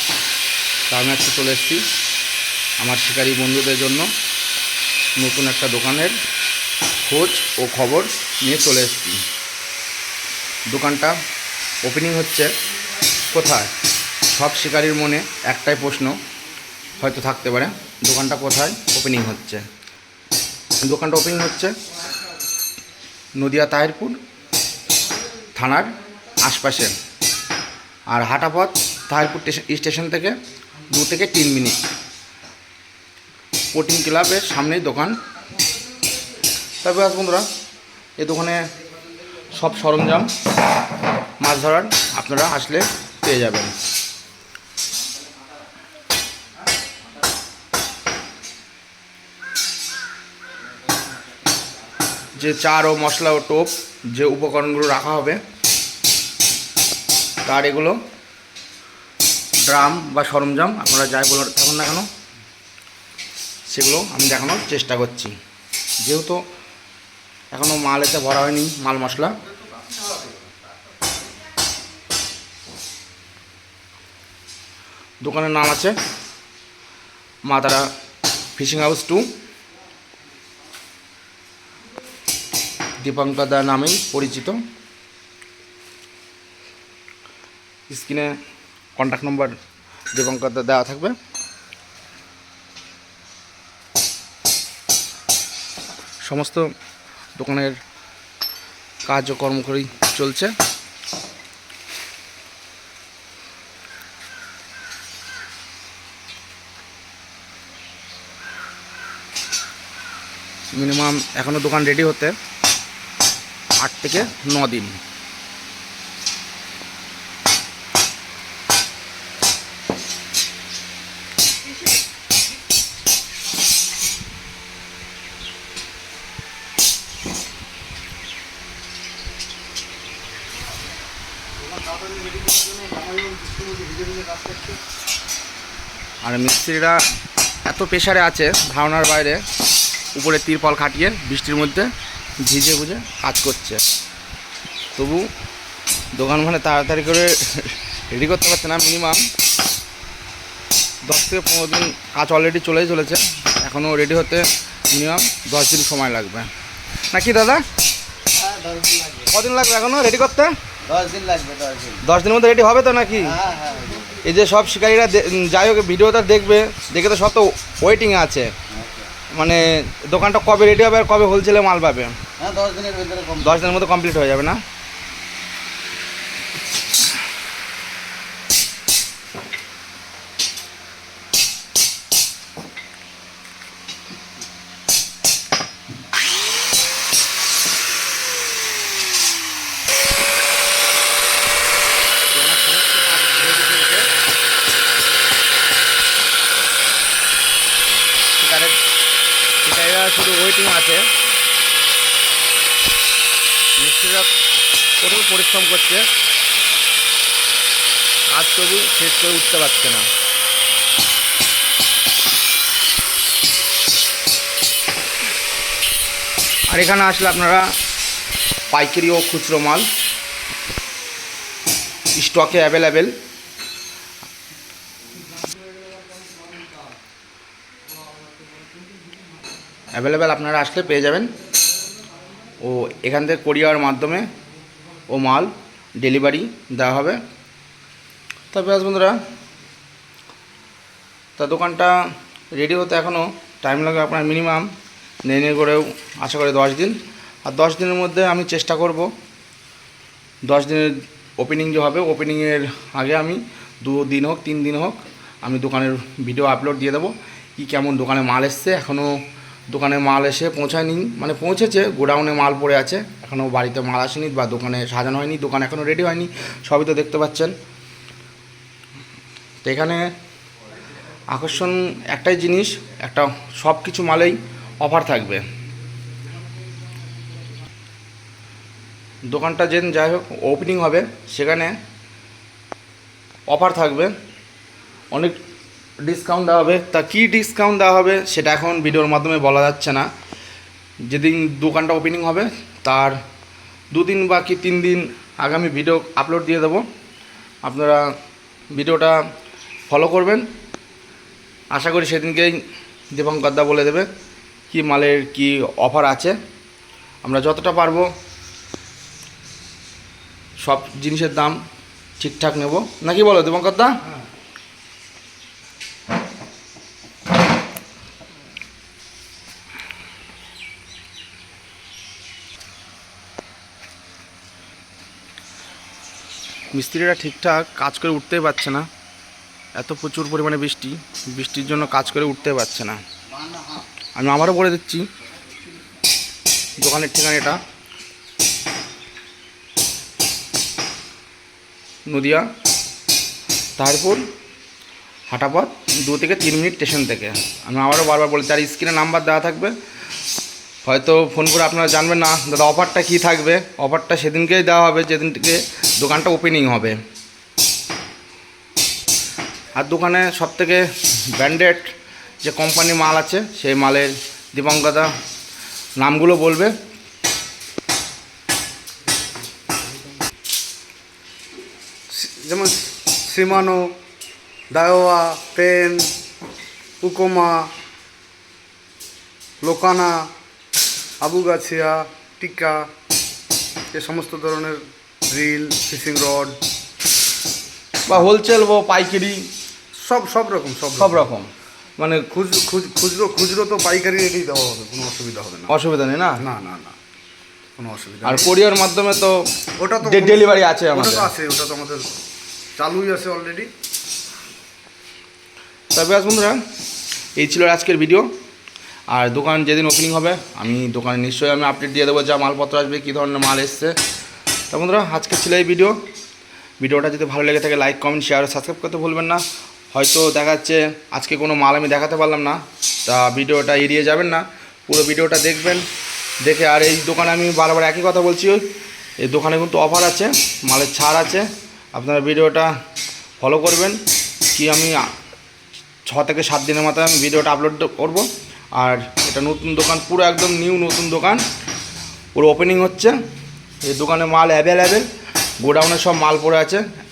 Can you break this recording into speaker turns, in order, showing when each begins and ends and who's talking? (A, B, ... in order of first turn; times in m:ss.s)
0:00.9-0:01.8 A
0:02.8-0:04.1 A
0:05.2-0:06.2 A
0:07.1-0:09.2 A
0:10.7-0:11.2 A
0:11.8-0:12.5 A
0:13.3-0:13.7 A
0:14.3-0:16.2 A
0:17.0-0:19.6 A
0:20.8-0:21.8 A
0:23.4-0:24.2 A
0:25.6-0:27.0 A
0:28.1-0:30.4 A
0:30.9-0:31.8 A
0:33.7-0:35.2 A
0:36.8-0:37.5 A
0:38.2-0:38.6 A
0:39.5-0:40.3 A
0:41.4-0:43.7 A
0:52.4-0:55.4 A
0:57.4-0:58.0 A
0:59.6-1:02.1 A
1:03.7-1:05.3 A
1:06.0-1:06.4 A
1:07.5-1:09.4 A
1:15.2-1:15.9 A
1:17.5-1:17.9 A
1:18.6-1:19.3 A
1:23.0-1:24.6 A
1:27.9-1:28.3 A
1:29.0-1:29.6 A
1:30.1-1:31.2 A
1:36.2-1:36.7 A
1:37.4-1:37.8 A
1:39.0-1:40.5 A
1:50.8-1:52.3 A
1:53.8-1:54.9 A
2:11.6-2:14.8 B
2:16.2-2:17.0 A
2:17.7-2:19.4 A
2:20.1-2:21.9 A
2:22.4-2:23.8 A
2:25.0-2:25.3 A
2:26.2-2:29.2 A
2:31.1-2:36.5 A
2:37.1-2:37.6 A
2:38.3-2:39.3 C
2:39.3-2:40.5 A
2:40.8-2:42.0 C
2:42.0-2:43.4 A
2:43.3-2:44.2 C
2:44.2-2:48.5 A
2:48.7-2:49.1 C
2:49.3-2:52.2 A
2:52.4-2:53.7 C
2:53.4-2:54.6 A
3:12.3-3:14.1 A
3:18.4-3:18.8 A
3:19.6-3:21.1 A
3:23.8-3:24.3 A
3:25.0-3:26.1 A
3:28.3-3:30.1 A
3:36.7-3:37.7 A
3:38.7-3:39.9 A
3:42.2-3:43.1 A
3:49.9-3:51.3 A
3:52.6-3:54.3 A
3:55.1-3:57.2 A
3:58.5-3:59.2 A
4:01.4-4:01.9 A
4:02.5-4:04.7 A
4:05.3-4:09.1 A
4:10.5-4:19.2 A
4:19.7-4:27.5 A
4:29.6-4:30.1 A
4:31.3-4:35.4 A
4:39.3-4:41.8 A
4:43.5-4:44.1 A
4:45.1-4:45.4 A
4:46.0-4:50.1 A
4:51.1-4:53.2 A
4:53.9-4:56.8 A
4:57.6-4:58.0 A
4:58.7-4:59.2 A
4:59.9-5:00.4 A
5:01.7-5:02.6 A
5:03.1-5:04.1 A
5:04.7-5:06.4 A
5:07.2-5:08.1 A
5:10.6-5:11.6 A
5:12.2-5:14.0 A
5:26.7-5:28.9 A
5:29.8-5:33.0 A
5:33.3-5:33.8 C
5:34.2-5:35.1 A
5:36.8-5:37.6 A
5:42.1-5:42.5 A
5:43.8-5:44.2 A
5:45.3-5:49.8 A
5:50.8-5:57.0 A
5:59.8-6:05.1 A
6:06.0-6:06.7 A
6:12.1-6:13.9 B
6:14.7-6:16.1 B
6:17.0-6:17.7 B
6:19.6-6:20.3 B
6:21.2-6:22.8 B
6:23.9-6:26.6 B
6:28.1-6:29.5 A
6:30.0-6:31.3 B
6:31.0-6:32.3 A
6:32.3-6:35.7 B
6:35.7-6:36.4 A
6:36.4-6:37.0 B
6:37.8-6:38.5 B
6:38.2-6:39.4 A
6:39.8-6:42.1 B
6:40.0-6:41.3 A
6:42.8-6:43.7 B
6:45.9-6:46.6 A
6:47.4-6:48.3 A
6:49.1-6:54.0 A
6:54.7-6:56.0 A
6:56.8-7:05.8 A
7:06.4-7:08.7 A
7:09.2-7:12.7 A
7:13.4-7:14.0 A
7:14.5-7:15.1 A
7:16.1-7:21.4 A
7:22.4-7:23.2 A
7:23.8-7:25.1 A
7:25.6-7:26.8 A